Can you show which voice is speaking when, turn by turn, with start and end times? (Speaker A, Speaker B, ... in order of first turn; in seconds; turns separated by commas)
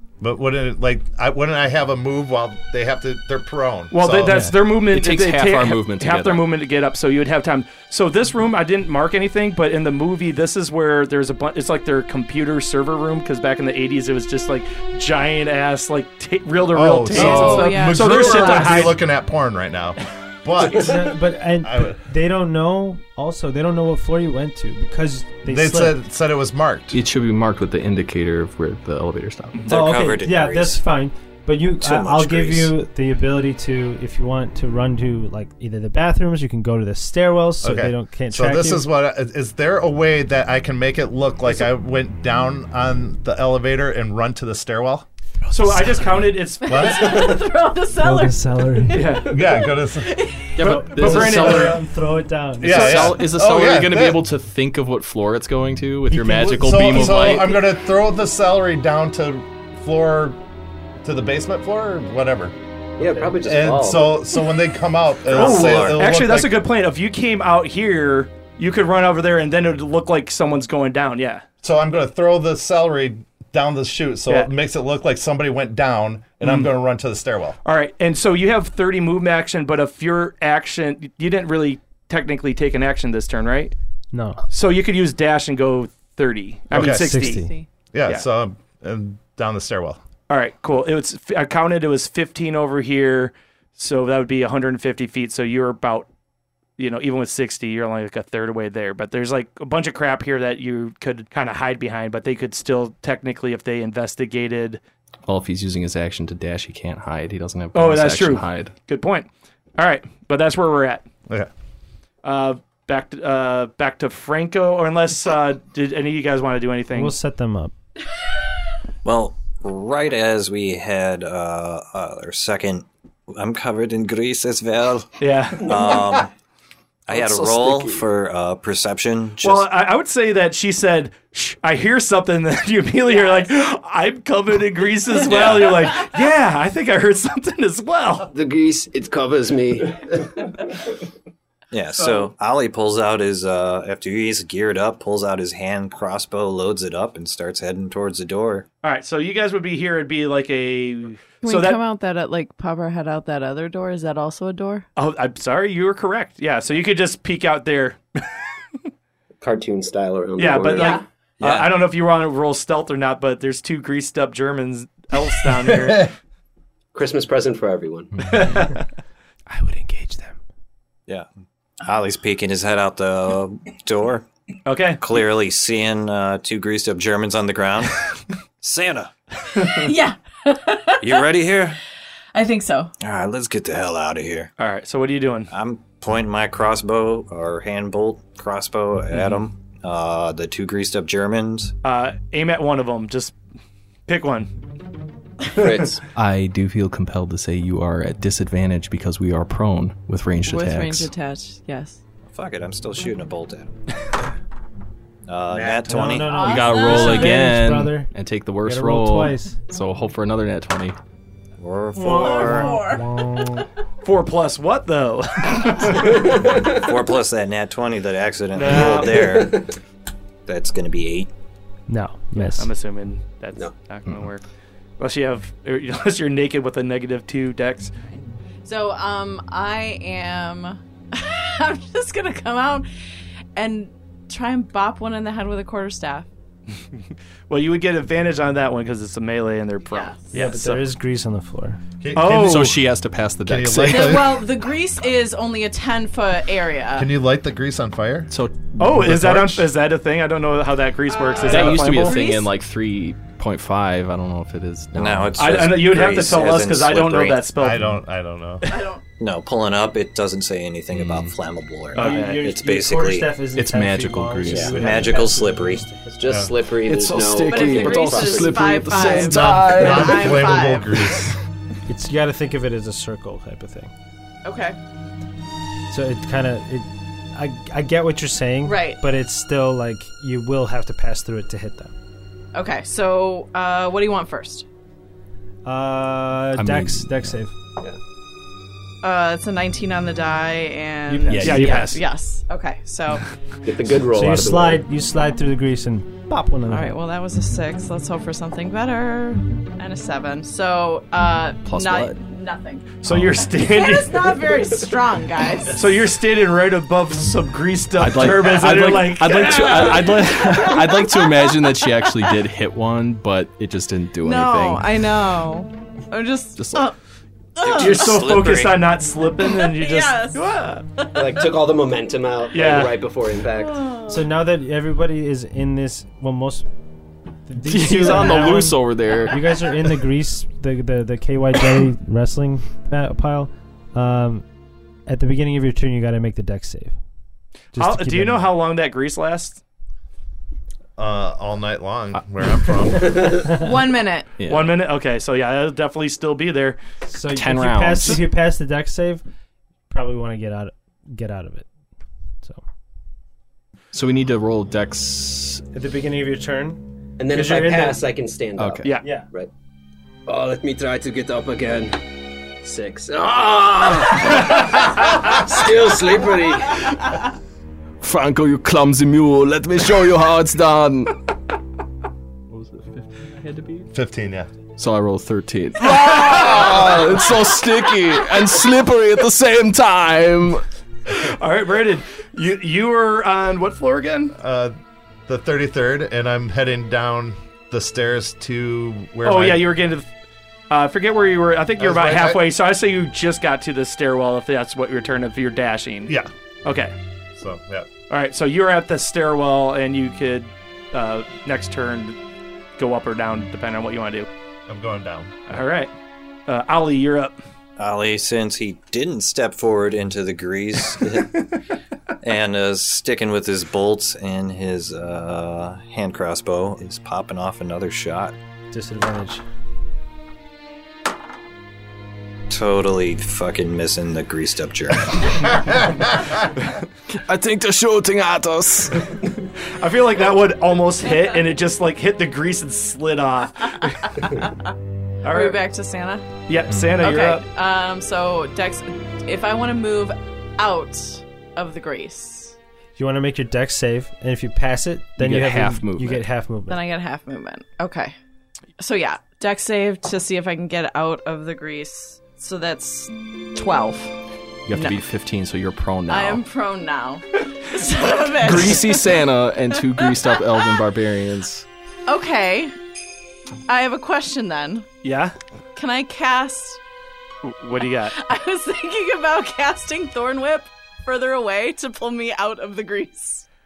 Speaker A: 0.2-4.5, Speaker B: 3.9-19.0, Speaker C: 4.3-4.5, Speaker D: 4.8-6.5, Speaker A: 16.7-22.0, Speaker E: 17.1-18.8, Speaker C: 20.6-26.0, Speaker A: 25.4-27.0, Speaker D: 26.9-29.6, Speaker F: 29.6-30.8, Speaker C: 29.7-38.9, Speaker F: 31.8-32.7, Speaker A: 37.6-45.0, Speaker B: 45.5-47.3, Speaker E: 46.6-50.7, Speaker A: 46.6-47.4, Speaker C: 48.0-49.0, Speaker B: 48.9-49.5, Speaker A: 49.2-50.1, Speaker D: 50.6-51.7, Speaker C: 50.6-53.1, Speaker A: 50.6-51.8, Speaker B: 50.7-51.8, Speaker A: 52.6-54.2, Speaker D: 52.6-57.5, Speaker C: 56.1-56.8, Speaker A: 56.4-60.4, Speaker A: 61.0-62.5, Speaker G: 63.0-64.2, Speaker A: 63.4-66.6, Speaker F: 65.2-66.1, Speaker B: 65.3-71.4, Speaker A: 71.6-77.6, Speaker B: 76.4-76.7, Speaker B: 77.6-83.7, Speaker C: 84.1-84.4, Speaker B: 84.5-87.5, Speaker A: 86.7-87.2, Speaker C: 86.8-87.5, Speaker E: 87.3-87.7, Speaker A: 87.9-90.0, Speaker B: 90.3-96.1, Speaker B: 96.8-104.8, Speaker D: 105.3-108.7, Speaker B: 107.7-111.0, Speaker B: 112.2-117.1, Speaker C: 116.9-117.7, Speaker F: 119.0-126.3, Speaker B: 125.2-126.0, Speaker F: 127.1-129.7, Speaker D: 127.1-128.1, Speaker B: 129.4-138.3, Speaker E: 133.1-133.4, Speaker F: 135.2-135.7, Speaker G: 138.3-140.4, Speaker F: 141.7-148.7, Speaker B: 148.8-151.8, Speaker E: 151.4-154.8, Speaker B: 154.9-158.2, Speaker G: 159.4-161.0, Speaker B: 160.4-166.1, Speaker E: 160.6-161.0, Speaker F: 161.4-161.7, Speaker A: 165.5-166.1, Speaker G: 166.9-168.1, Speaker B: 168.2-168.8, Speaker C: 169.5-170.3, Speaker F: 171.8-174.2, Speaker B: 174.7-175.0, Speaker F: 175.0-178.0, Speaker F: 178.6-179.1, Speaker E: 179.7-181.3, Speaker F: 181.0-181.8, Speaker E: 182.3-182.9, Speaker F: 183.0-184.5, Speaker B: 184.6-185.5, Speaker F: 185.5-191.7, Speaker B: 191.8-193.3, Speaker B: 194.1-194.5, Speaker G: 195.6-196.0, Speaker D: 196.1-201.1, Speaker E: 200.4-202.0, Speaker F: 202.3-203.7, Speaker F: 205.3-206.4, Speaker A: 205.5-205.8, Speaker C: 205.8-208.1, Speaker E: 206.2-207.5, Speaker D: 206.4-211.0, Speaker C: 208.6-209.6, Speaker F: 211.6-212.8, Speaker C: 211.9-213.7, Speaker E: 212.0-213.1, Speaker B: 214.0-216.4, Speaker G: 216.1-216.8, Speaker F: 216.3-219.7, Speaker B: 218.5-219.2, Speaker G: 218.7-219.7, Speaker F: 220.5-221.3, Speaker C: 221.9-222.7, Speaker B: 222.5-224.4, Speaker B: 225.0-227.9, Speaker E: 228.6-232.9, Speaker E: 233.6-236.3, Speaker B: 237.5-240.8, Speaker E: 239.8-240.3, Speaker C: 240.3-241.8, Speaker A: 242.0-242.8, Speaker B: 242.1-242.8, Speaker D: 242.4-244.3, Speaker A: 243.4-244.4, Speaker E: 243.8-247.1, Speaker A: 246.9-248.3, Speaker D: 248.3-249.6, Speaker B: 248.8-252.2, Speaker E: 251.3-252.5, Speaker D: 251.4-255.7, Speaker F: 254.9-257.5, Speaker B: 255.4-257.9, Speaker A: 257.6-258.6, Speaker E: 258.7-259.0, Speaker F: 259.2-263.4, Speaker B: 261.9-262.4, Speaker C: 261.9-266.2, Speaker D: 263.5-265.2, Speaker F: 264.4-265.9, Speaker G: 266.1-268.8, Speaker A: 266.3-266.5, Speaker D: 266.8-270.4, Speaker E: 267.4-271.2, Speaker A: 269.2-271.3, Speaker C: 271.9-273.9, Speaker E: 274.4-274.8, Speaker C: 275.9-281.9, Speaker E: 278.6-279.0, Speaker E: 282.5-284.6, Speaker C: 285.6-287.5, Speaker D: 286.5-287.3, Speaker E: 289.0-293.2, Speaker C: 291.1-291.9, Speaker D: 291.3-291.7, Speaker B: 291.3-292.0, Speaker G: 293.6-294.8, Speaker C: 294.1-297.0, Speaker E: 296.7-302.9, Speaker D: 301.6-302.2, Speaker B: 303.0-304.6, Speaker D: 303.1-303.4, Speaker E: 303.6-305.9, Speaker B: 305.7-310.8, Speaker D: 308.0-315.0, Speaker E: 309.5-312.4, Speaker E: 314.2-317.0, Speaker D: 316.6-316.9, Speaker E: 317.6-318.3, Speaker F: 317.6-318.8, Speaker B: 317.7-320.8, Speaker E: 319.4-321.6, Speaker G: 321.1-323.8, Speaker B: 322.5-322.9, Speaker E: 323.6-324.3, Speaker C: 324.1-326.6, Speaker C: 327.5-334.4, Speaker D: 327.6-329.7, Speaker C: 335.1-336.9, Speaker C: 337.7-338.5, Speaker B: 337.8-339.6, Speaker A: 341.0-343.3, Speaker E: 343.4-344.3, Speaker D: 344.4-344.7, Speaker B: 344.5-346.8, Speaker C: 347.1-349.2, Speaker D: 347.3-348.2, Speaker C: 349.9-351.7, Speaker D: 353.9-355.6, Speaker C: 355.7-358.0, Speaker G: 357.2-359.5, Speaker D: 358.6-358.9, Speaker C: 359.0-359.3, Speaker G: 360.3-362.0, Speaker G: 362.6-367.0, Speaker D: 368.0-371.1, Speaker D: 372.5-373.9, Speaker A: 373.9-374.5, Speaker D: 374.8-380.6, Speaker B: 375.9-376.7, Speaker B: 381.1-384.3, Speaker A: 384.4-384.7, Speaker A: 385.3-389.7, Speaker B: 389.2-390.1, Speaker B: 390.7-396.9, Speaker A: 391.8-392.4, Speaker A: 397.4-397.9, Speaker B: 398.1-402.1, Speaker B: 402.8-404.3, Speaker A: 404.7-405.4, Speaker B: 405.5-405.9, Speaker B: 406.5-407.4, Speaker F: 407.8-411.4, Speaker F: 412.2-418.3, Speaker C: 418.7-419.4, Speaker F: 422.5-425.6, Speaker D: 427.1-429.3, Speaker B: 429.6-434.4, Speaker E: 434.4-434.7, Speaker B: 435.2-435.6, Speaker E: 435.2-436.3, Speaker B: 436.5-437.4, Speaker E: 437.0-442.6, Speaker C: 443.0-446.8, Speaker D: 445.2-446.2, Speaker E: 446.7-448.1, Speaker E: 448.8-454.2, Speaker D: 454.6-456.4, Speaker E: 454.7-455.0, Speaker E: 456.1-460.8, Speaker D: 458.4-461.6, Speaker E: 462.1-462.7, Speaker E: 463.7-464.9, Speaker B: 465.0-465.4, Speaker E: 465.7-466.8, Speaker B: 467.4-468.1, Speaker E: 468.1-473.4